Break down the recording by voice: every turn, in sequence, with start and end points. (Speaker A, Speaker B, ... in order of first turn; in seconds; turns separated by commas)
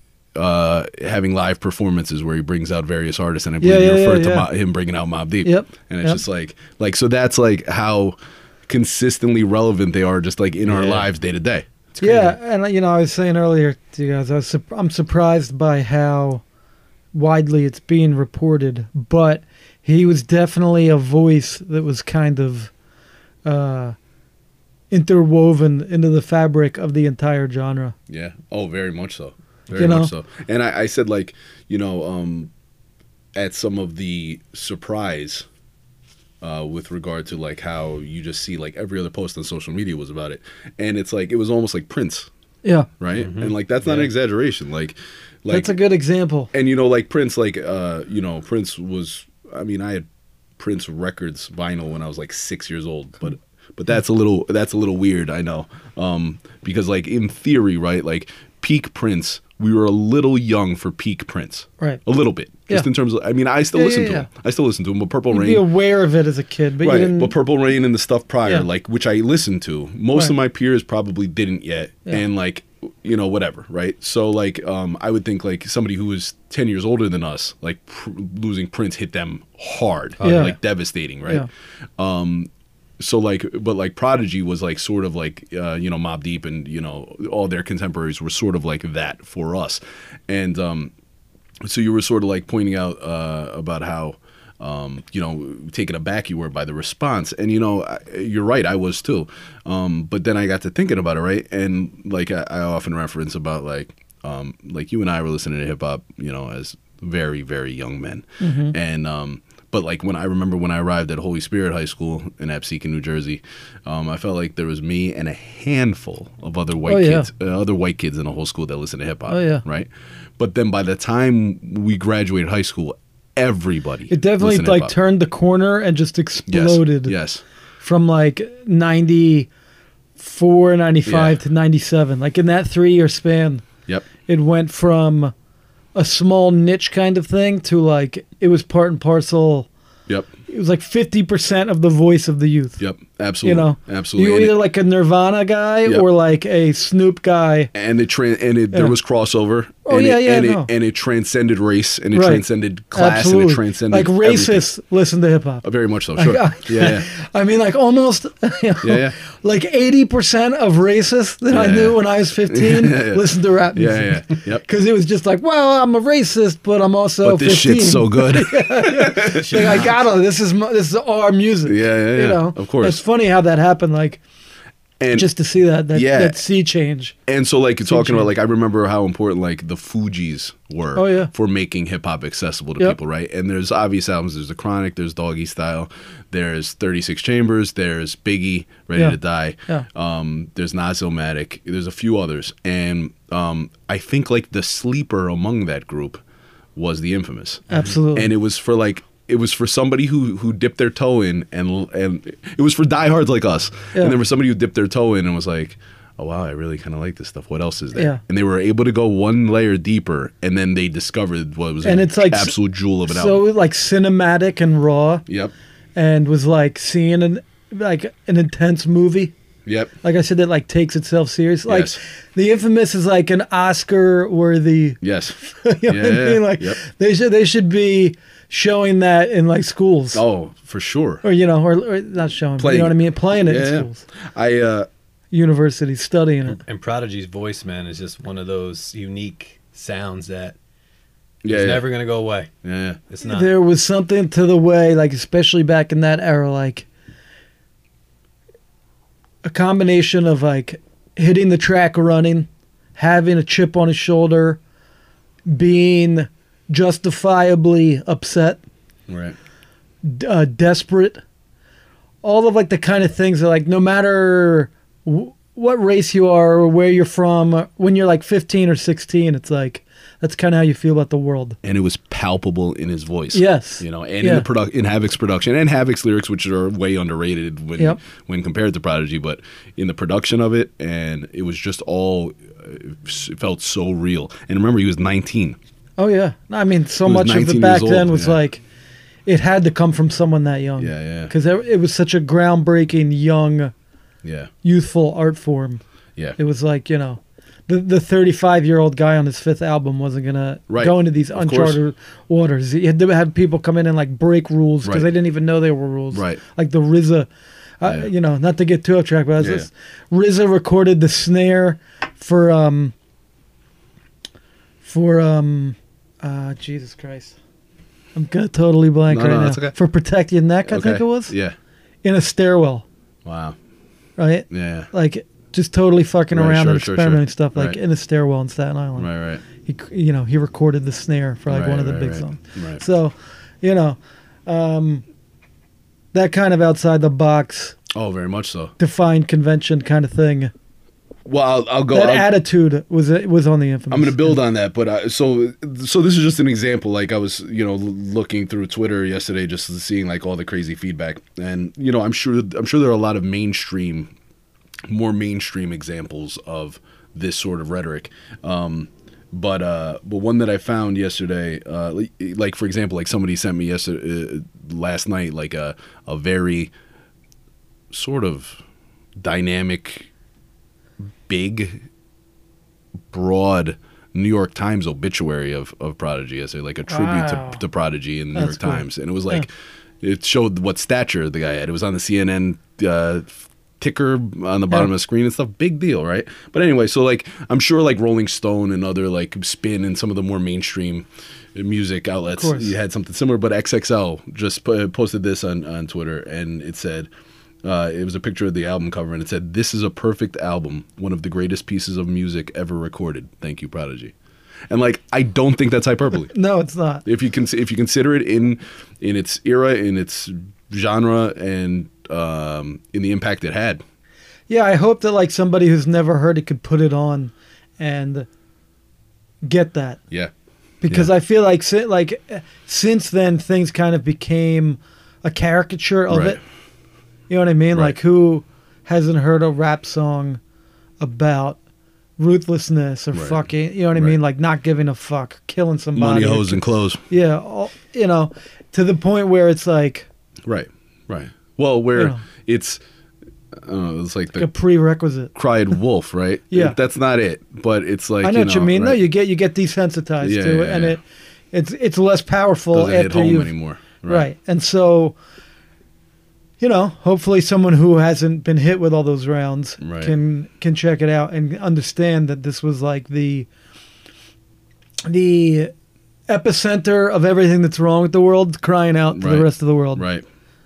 Speaker A: 0.3-8.2, Speaker B: 3.6-4.5, Speaker B: 5.4-6.2, Speaker A: 8.7-11.7, Speaker C: 10.7-11.1, Speaker B: 12.0-16.4, Speaker C: 12.0-12.3, Speaker B: 17.1-22.7, Speaker B: 23.4-24.0, Speaker B: 24.9-27.9, Speaker A: 28.1-32.5, Speaker B: 29.8-30.1, Speaker A: 33.4-35.5, Speaker A: 36.4-42.3, Speaker A: 43.0-45.7, Speaker C: 43.1-44.1, Speaker B: 45.5-46.5, Speaker A: 46.5-50.1, Speaker A: 50.6-65.7, Speaker B: 63.8-64.3, Speaker B: 65.3-67.3, Speaker A: 66.8-90.9, Speaker C: 80.2-80.5, Speaker B: 80.2-80.5, Speaker A: 91.6-124.9, Speaker B: 108.4-108.7, Speaker B: 116.9-117.3, Speaker B: 119.3-119.6, Speaker B: 124.1-127.2, Speaker A: 126.5-127.4, Speaker B: 127.8-129.5, Speaker B: 130.2-133.7, Speaker A: 131.1-131.4, Speaker B: 134.3-135.3, Speaker B: 135.9-139.7, Speaker B: 140.5-142.8, Speaker A: 142.8-144.6, Speaker B: 143.4-147.7, Speaker A: 147.7-154.7, Speaker B: 149.9-150.7, Speaker B: 152.1-174.2, Speaker A: 155.6-157.1, Speaker A: 158.8-159.2, Speaker A: 161.5-164.6, Speaker A: 167.2-169.9, Speaker C: 169.4-169.8, Speaker A: 171.7-173.0, Speaker A: 175.0-175.3, Speaker B: 175.1-177.2, Speaker A: 175.9-176.4, Speaker A: 177.3-196.2, Speaker B: 177.9-178.3, Speaker B: 180.9-181.3, Speaker A: 196.8-213.4, Speaker B: 197.7-198.3, Speaker B: 207.9-208.2, Speaker B: 211.8-215.2, Speaker A: 215.3-215.5, Speaker B: 215.9-219.3, Speaker A: 219.7-219.9, Speaker B: 220.0-230.2, Speaker A: 221.7-222.0, Speaker A: 225.0-226.8, Speaker A: 230.1-231.2, Speaker B: 231.2-234.1, Speaker A: 232.6-234.9, Speaker B: 235.3-236.6, Speaker C: 236.6-240.6, Speaker A: 241.4-241.9, Speaker C: 241.4-242.5, Speaker A: 242.6-243.0, Speaker C: 243.1-243.5, Speaker B: 243.2-246.9, Speaker B: 249.4-254.6, Speaker B: 255.5-258.6, Speaker A: 259.1-259.4, Speaker B: 260.0-261.2, Speaker B: 262.2-271.6, Speaker A: 271.6-285.6, Speaker B: 273.3-274.5, Speaker B: 286.0-288.6, Speaker A: 287.0-288.4, Speaker B: 289.3-293.7, Speaker A: 290.8-291.3, Speaker A: 294.2-294.5, Speaker B: 294.6-295.8, Speaker B: 296.4-307.3, Speaker A: 300.7-301.8, Speaker A: 304.8-305.1, Speaker A: 306.1-306.4, Speaker B: 307.8-312.9, Speaker A: 309.4-309.7, Speaker B: 314.8-317.4, Speaker B: 318.1-321.3, Speaker A: 319.1-319.8, Speaker A: 320.7-321.6, Speaker B: 322.0-322.9, Speaker A: 323.2-323.6, Speaker B: 324.2-329.1, Speaker A: 324.5-324.9, Speaker A: 326.3-327.8, Speaker A: 328.9-329.4, Speaker B: 329.6-335.0, Speaker A: 331.5-332.8, Speaker B: 336.1-337.8, Speaker A: 337.9-338.8, Speaker B: 338.8-340.5, Speaker A: 341.3-342.3, Speaker B: 341.9-344.4, Speaker A: 343.9-354.1, Speaker A: 354.9-366.7, Speaker A: 367.9-368.6, Speaker A: 369.2-370.1, Speaker A: 371.3-371.8, Speaker A: 373.1-379.5, Speaker B: 376.9-377.6, Speaker B: 378.3-379.4, Speaker A: 380.0-397.1, Speaker B: 392.4-392.7, Speaker A: 397.6-404.1, Speaker A: 404.7-406.3, Speaker B: 406.3-407.1, Speaker A: 407.1-413.8, Speaker B: 414.5-418.3, Speaker B: 419.4-420.0, Speaker B: 420.8-426.4, Speaker A: 426.1-426.4, Speaker B: 427.3-430.4, Speaker B: 431.0-431.6, Speaker B: 432.2-440.1, Speaker A: 433.1-434.2, Speaker A: 435.9-437.0, Speaker A: 440.4-442.8, Speaker B: 441.9-442.2, Speaker A: 443.5-444.5, Speaker B: 444.4-445.3, Speaker A: 445.3-449.0, Speaker B: 446.5-446.8, Speaker B: 448.2-451.0, Speaker A: 450.2-451.0, Speaker B: 451.5-453.5, Speaker A: 452.7-454.3, Speaker B: 454.0-455.2, Speaker B: 456.6-463.5, Speaker A: 459.8-460.1, Speaker B: 465.1-465.7, Speaker B: 466.3-470.1, Speaker A: 469.1-470.2